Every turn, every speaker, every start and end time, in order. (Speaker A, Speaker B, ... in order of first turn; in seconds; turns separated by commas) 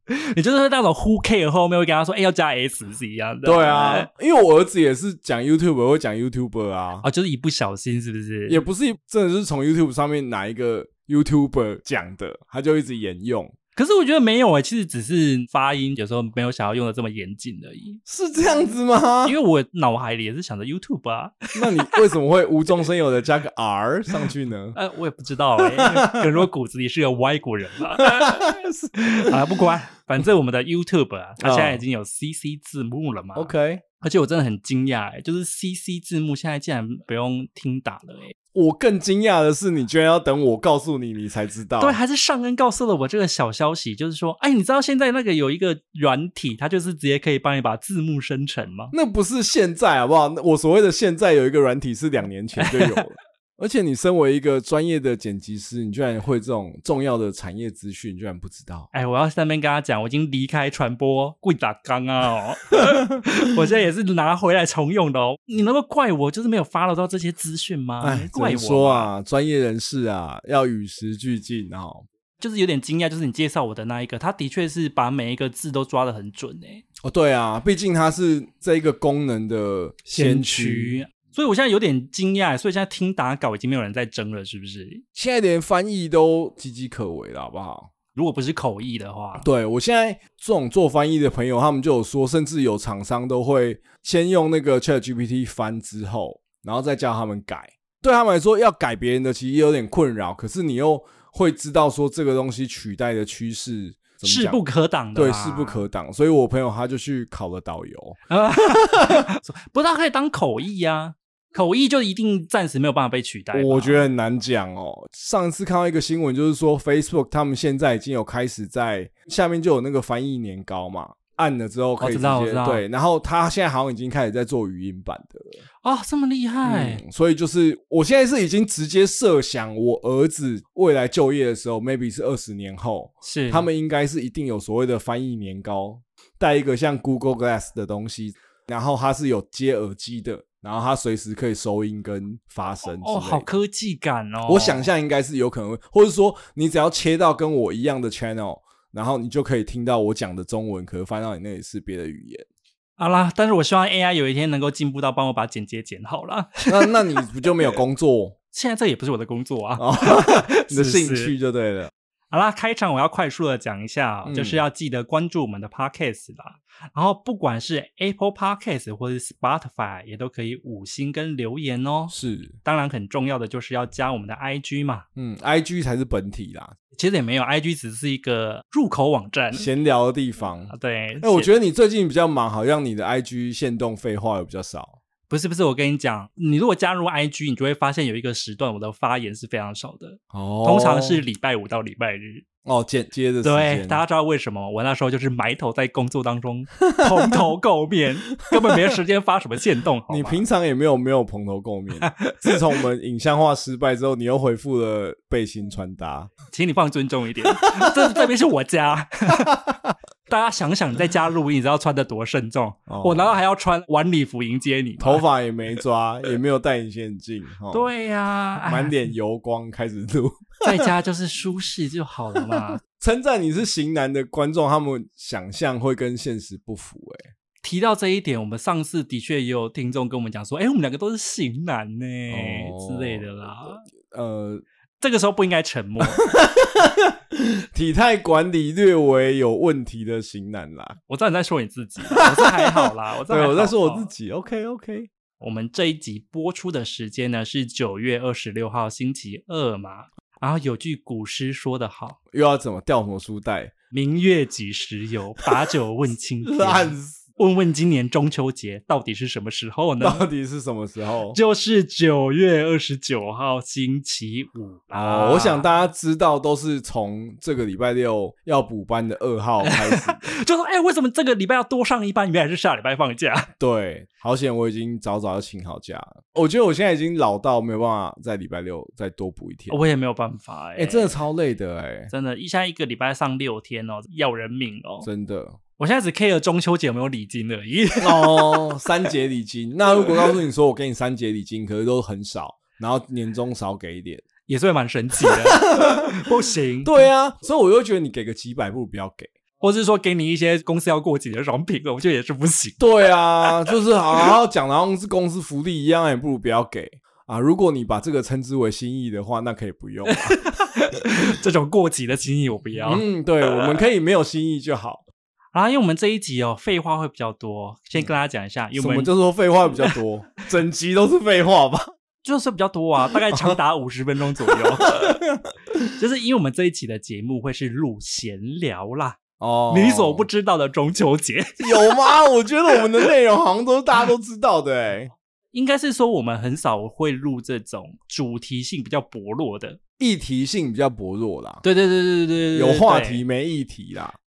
Speaker A: 0.2-4.1, Speaker B: 3.4-7.1, Speaker A: 7.0-8.6, Speaker B: 8.5-13.5, Speaker A: 13.8-18.0, Speaker B: 18.1-19.4, Speaker A: 19.2-22.0, Speaker B: 21.5-24.8, Speaker A: 24.8-38.4, Speaker B: 25.7-26.4, Speaker B: 28.0-29.6, Speaker B: 31.4-31.8, Speaker B: 33.4-33.8, Speaker B: 38.5-42.0, Speaker A: 41.8-48.9, Speaker B: 48.9-58.9, Speaker A: 52.6-53.0, Speaker A: 58.9-69.1, Speaker B: 68.0-72.1, Speaker A: 72.4-76.8, Speaker B: 77.0-81.0, Speaker A: 80.1-85.0, Speaker B: 85.2-87.9, Speaker A: 88.1-89.5, Speaker B: 89.4-104.6, Speaker A: 104.2-105.8, Speaker B: 105.2-109.3, Speaker A: 108.3-114.1, Speaker B: 113.5-125.6, Speaker A: 122.0-122.8, Speaker A: 125.8-127.0, Speaker B: 126.7-143.5, Speaker A: 133.2-133.7, Speaker A: 142.8-144.9, Speaker B: 144.4-152.5, Speaker A: 153.0-157.7, Speaker B: 156.7-158.3, Speaker A: 158.5-161.3, Speaker B: 159.8-161.9, Speaker A: 162.3-175.1, Speaker B: 164.2-164.6, Speaker B: 172.1-172.6, Speaker B: 175.2-176.7, Speaker A: 176.9-179.7, Speaker B: 179.5-185.0, Speaker A: 180.7-181.5, Speaker A: 185.3-192.5, Speaker B: 190.3-191.2, Speaker B: 192.7-194.0, Speaker A: 193.4-200.4, Speaker B: 196.9-197.4, Speaker B: 198.4-199.0, Speaker B: 200.1-206.3, Speaker A: 202.1-202.5, Speaker A: 206.5-209.5, Speaker B: 207.5-208.2, Speaker B: 209.4-209.9, Speaker A: 210.3-215.2, Speaker B: 212.9-213.3, Speaker B: 215.0-217.9, Speaker A: 217.7-218.9, Speaker B: 218.7-220.9, Speaker A: 220.6-222.8, Speaker B: 222.4-227.3, Speaker A: 227.6-233.8, Speaker B: 232.3-233.3, Speaker B: 233.9-234.6, Speaker A: 235.0-236.3, Speaker B: 236.2-241.0, Speaker A: 241.1-244.1, Speaker B: 242.1-245.1, Speaker A: 245.4-252.2, Speaker B: 252.3-253.7, Speaker A: 253.9-260.2, Speaker B: 256.4-257.3, Speaker B: 260.0-261.4, Speaker A: 261.3-265.7, Speaker B: 264.9-270.3, Speaker A: 269.6-273.5, Speaker B: 273.6-279.8, Speaker A: 279.7-281.2, Speaker B: 280.8-282.1, Speaker A: 282.1-285.1, Speaker B: 285.0-285.6, Speaker A: 285.8-288.8, Speaker B: 288.0-294.2, Speaker A: 294.5-297.1, Speaker B: 295.2-296.3, Speaker B: 296.8-299.3, Speaker A: 299.6-302.8, Speaker B: 302.8-310.4, Speaker A: 310.1-313.1, Speaker B: 312.9-315.0, Speaker A: 315.5-319.1, Speaker B: 318.8-321.9, Speaker A: 322.2-325.2, Speaker B: 323.1-323.6, Speaker B: 324.5-325.9, Speaker A: 326.0-329.2, Speaker B: 329.4-330.3, Speaker A: 329.7-331.8, Speaker B: 331.6-335.1, Speaker A: 335.5-339.8, Speaker B: 340.0-341.6, Speaker A: 341.6-343.2, Speaker B: 342.5-344.2